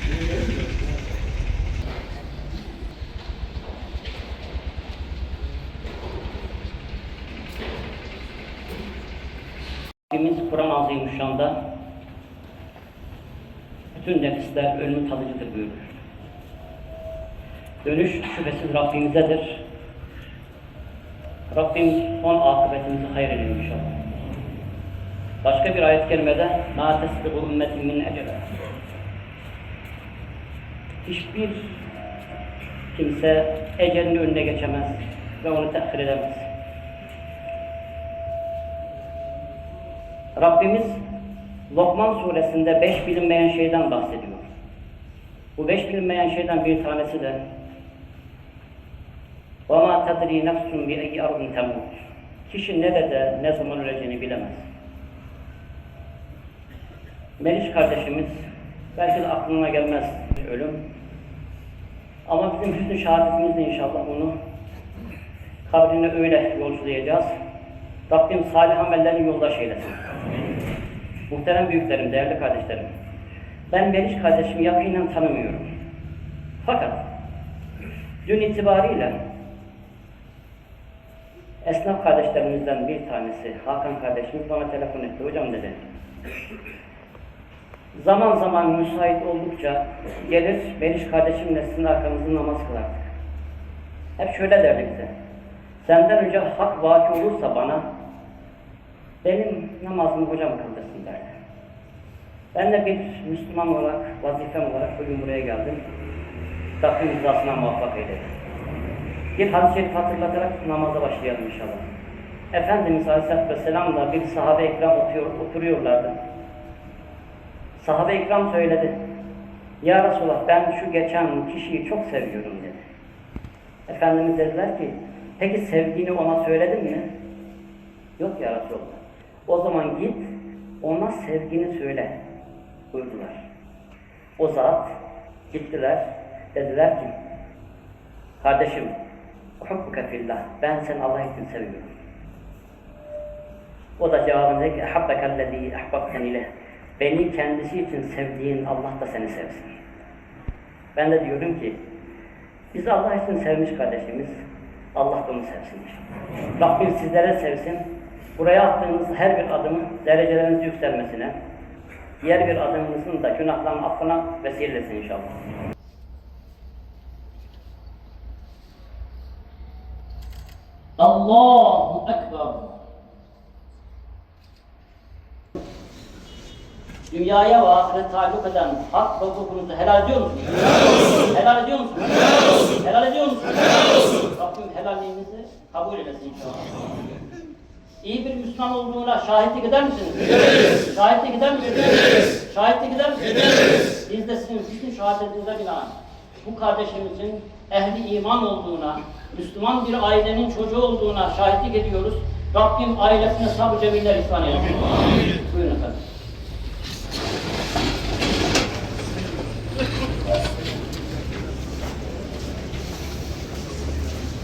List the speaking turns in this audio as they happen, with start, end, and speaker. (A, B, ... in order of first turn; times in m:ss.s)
0:10.1-0:11.6 A
0:13.9-0:15.9 A
0:17.8-0:19.6 A
0:21.5-0:24.0 A
0:25.4-0:28.5 A
0:31.0-0:31.7 A
0:32.9-0:36.5 A
0:40.4-0:41.0 A
0:41.7-0:44.5 A
0:45.6-0:47.4 A
0:49.7-0:54.6 A
0:57.4-1:00.8 A
1:02.3-1:04.3 A
1:05.6-1:07.4 A
1:08.1-1:10.1 A
1:11.3-1:12.9 A
1:13.7-1:15.7 A
1:16.6-1:17.0 A
1:18.2-1:19.2 A
1:21.6-1:25.8 A
1:27.9-1:33.1 A
1:34.2-1:35.1 A
1:35.8-1:37.9 A
1:39.2-1:41.3 A
1:42.5-1:45.8 A
1:46.8-1:48.3 A
1:49.4-1:51.9 A
1:52.5-1:56.1 A
1:57.8-1:59.0 A
1:59.8-2:02.9 A
2:03.9-2:07.1 A
2:08.2-2:10.3 A
2:10.8-2:12.2 A
2:12.9-2:13.4 A
2:14.4-2:15.0 A
2:15.5-2:17.1 A
2:18.4-2:19.0 A
2:19.6-2:21.9 A
2:24.0-2:29.7 A
2:31.0-2:31.8 A
2:32.7-2:34.4 A
2:35.0-2:37.8 A
2:38.4-2:41.3 A
2:42.2-2:45.4 A
2:51.0-2:52.8 A
2:57.1-3:06.7 A
3:08.0-3:26.0 A